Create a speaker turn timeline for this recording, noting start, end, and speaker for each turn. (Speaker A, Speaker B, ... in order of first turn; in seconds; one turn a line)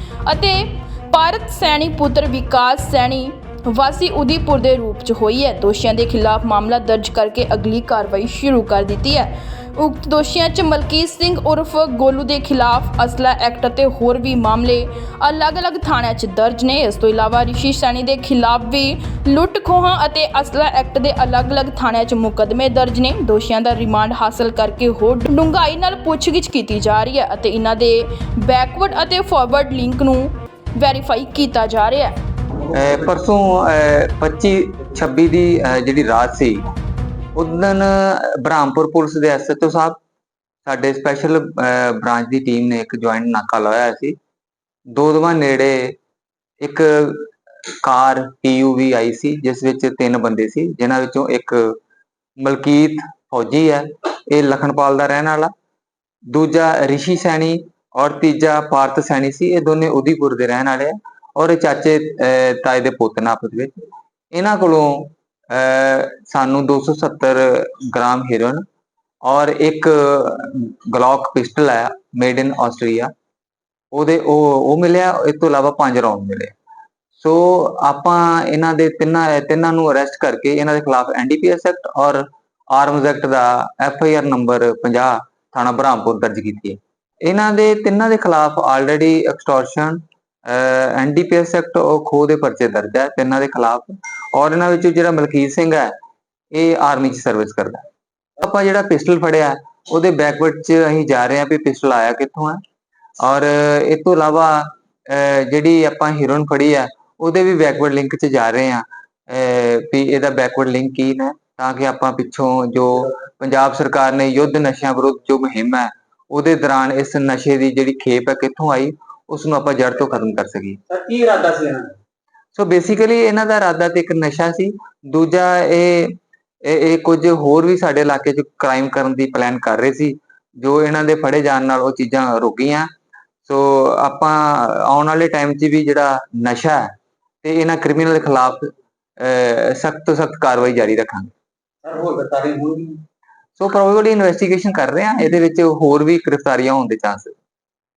Speaker A: 0.2-32.2
Speaker B: 32.7-36.6
Speaker B: 37.3-40.0
Speaker B: 40.6-44.1
Speaker B: 44.9-45.9
Speaker B: 46.6-51.8
Speaker B: 52.4-55.5
Speaker B: 56.3-68.6
Speaker B: 69.2-73.1
Speaker B: 73.9-76.5
Speaker B: 77.2-95.9
Speaker B: 96.5-97.8
Speaker B: 98.4-102.6
Speaker B: 103.2-120.8
Speaker C: 120.9-122.0
Speaker B: 122.5-132.9
Speaker B: 133.4-136.9
Speaker B: 137.4-141.3
Speaker C: 141.8-143.0
Speaker B: 143.6-147.3